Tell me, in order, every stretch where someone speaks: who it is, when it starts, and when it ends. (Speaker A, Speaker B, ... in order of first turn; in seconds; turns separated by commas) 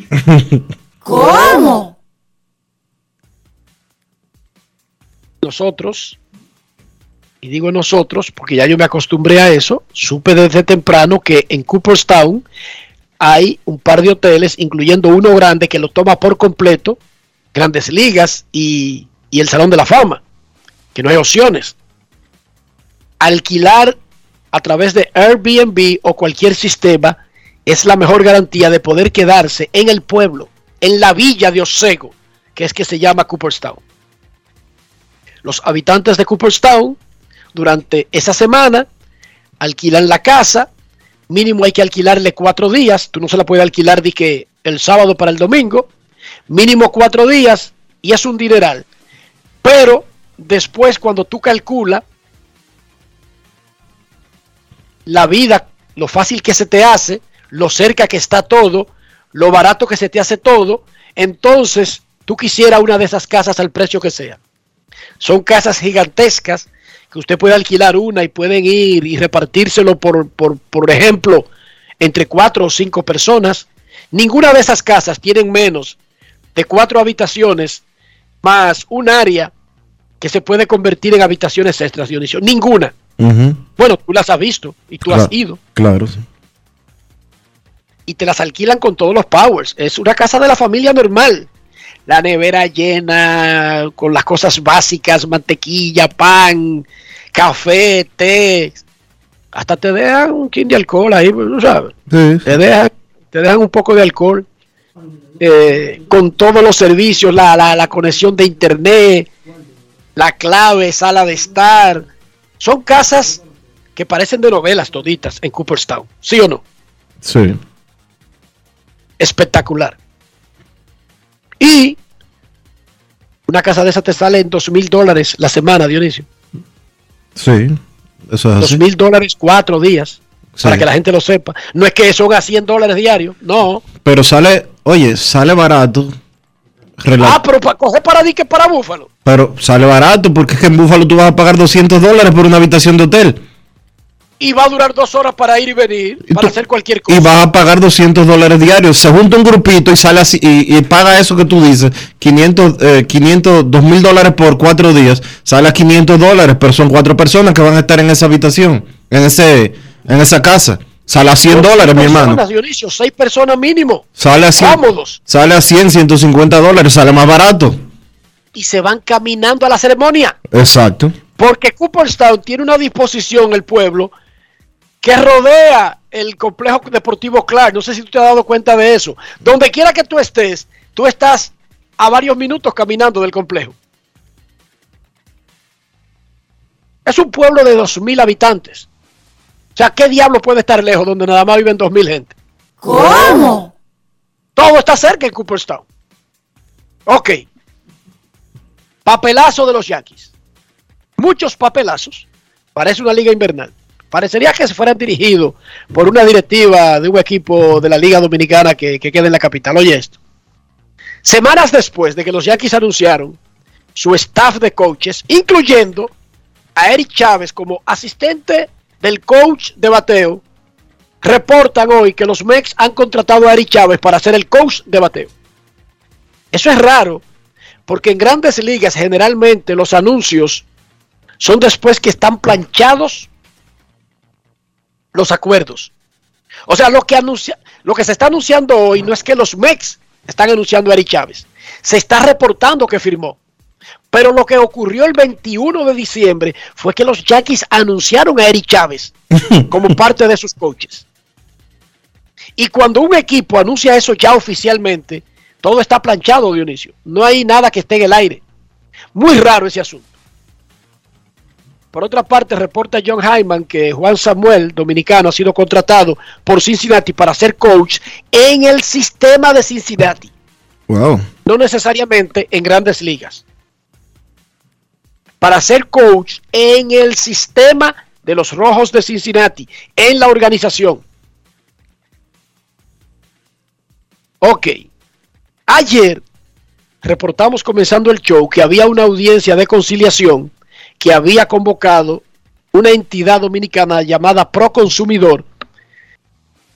Speaker A: 0.2-0.6, Speaker B: 5.4-6.2, Speaker B: 7.4-12.4, Speaker B: 13.2-17.0, Speaker B: 17.5-20.2, Speaker B: 20.9-21.8, Speaker B: 23.2-23.9, Speaker B: 24.5-33.8, Speaker B: 35.4-37.0, Speaker B: 37.5-38.9, Speaker B: 39.6-40.7, Speaker B: 41.3-45.9, Speaker B: 46.5-48.9, Speaker B: 49.6-52.0, Speaker B: 55.1-64.4, Speaker B: 65.2-71.5, Speaker B: 72.0-76.0, Speaker B: 76.5-77.8, Speaker B: 78.4-79.5, Speaker B: 80.2-82.9, Speaker A: 83.2-83.6, Speaker B: 83.8-85.6, Speaker A: 85.1-86.2, Speaker B: 88.1-91.5, Speaker B: 92.1-98.8, Speaker B: 99.5-101.9, Speaker A: 102.1-102.5, Speaker B: 102.5-104.5, Speaker B: 105.4-109.3, Speaker B: 110.2-112.0, Speaker B: 112.6-113.4, Speaker B: 114.0-116.6, Speaker A: 117.2-117.6, Speaker B: 119.2-120.0, Speaker B: 121.6-122.0, Speaker B: 123.5-126.2, Speaker A: 127.3-128.8, Speaker B: 128.6-133.8, Speaker A: 130.6-130.8, Speaker A: 134.0-136.1, Speaker A: 137.0-137.4, Speaker B: 137.2-139.1, Speaker A: 139.2-143.4, Speaker B: 144.4-147.3, Speaker A: 147.1-162.4, Speaker B: 161.5-164.1, Speaker A: 164.2-167.8, Speaker B: 164.6-165.2, Speaker B: 168.5-170.3, Speaker A: 170.5-171.1, Speaker B: 171.4-174.1, Speaker B: 175.0-183.8, Speaker B: 187.1-188.9, Speaker B: 189.8-192.3, Speaker B: 194.6-195.8, Speaker B: 197.1-197.4, Speaker B: 199.1-200.3, Speaker B: 201.2-210.2, Speaker B: 211.2-213.4, Speaker B: 213.9-216.1, Speaker B: 216.8-220.4, Speaker B: 221.2-225.3, Speaker B: 226.5-227.2, Speaker B: 227.9-230.6, Speaker B: 231.4-233.3, Speaker B: 235.1-235.9, Speaker B: 236.7-243.4, Speaker B: 244.1-249.1, Speaker A: 249.3-249.6, Speaker B: 249.7-251.0, Speaker B: 252.6-258.4, Speaker B: 259.1-260.1, Speaker B: 261.9-270.3, Speaker A: 270.9-271.2, Speaker B: 271.4-273.4, Speaker B: 275.4-281.0, Speaker B: 284.4-284.8, Speaker B: 285.7-286.2, Speaker B: 287.0-295.5